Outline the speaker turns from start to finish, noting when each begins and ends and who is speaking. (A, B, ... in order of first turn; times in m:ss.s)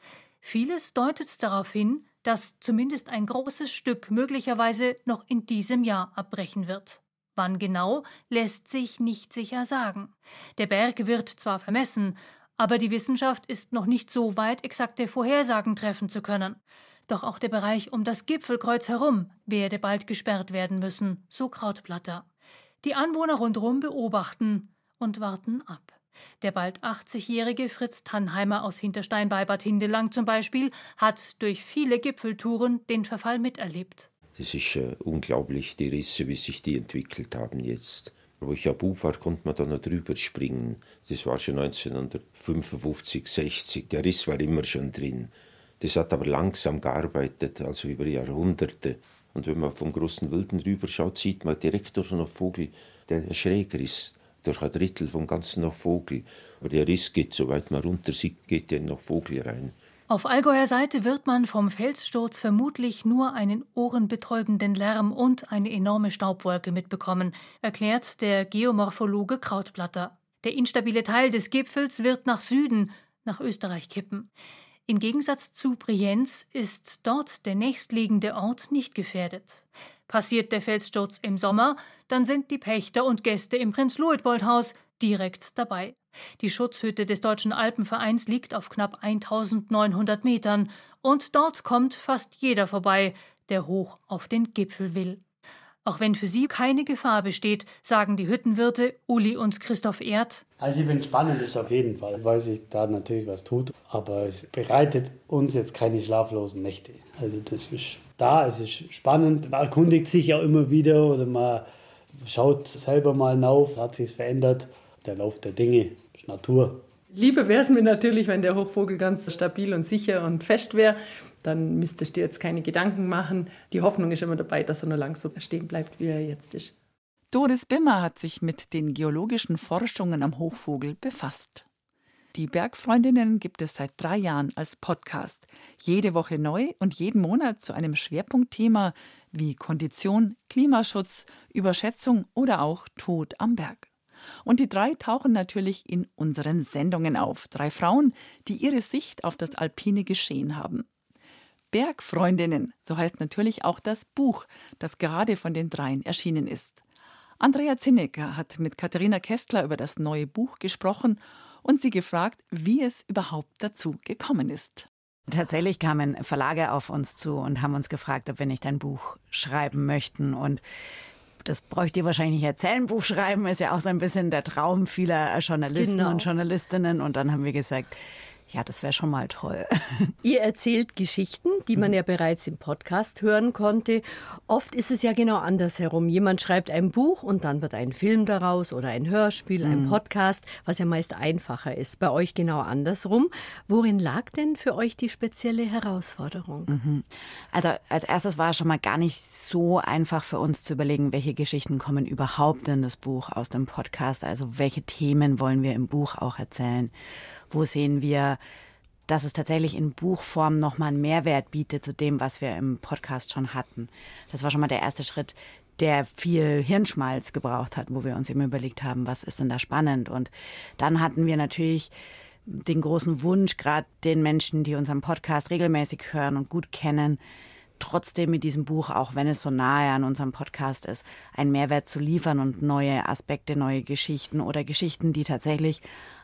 0:00.4-0:22.2 A
0:22.8-0:34.1 A
0:34.3-0:59.7 B
1:00.1-1:14.3 A
1:14.9-1:35.2 A
1:35.8-1:40.4 A
1:40.6-1:56.8 C
1:57.1-2:06.7 D
2:07.3-2:11.6 E
2:12.3-2:23.9 E
2:24.4-2:30.8 E
2:31.7-2:36.8 E
2:37.4-2:44.9 E
2:45.3-2:50.6 F
2:51.4-2:58.0 F
2:55.7-2:56.3 G
2:58.5-3:00.1 F
3:00.2-3:16.7 G
3:09.6-3:10.0 F
3:16.7-3:26.9 F
3:27.5-3:28.4 F
3:29.1-3:41.9 F
3:42.4-3:47.2 F
3:47.8-3:55.8 F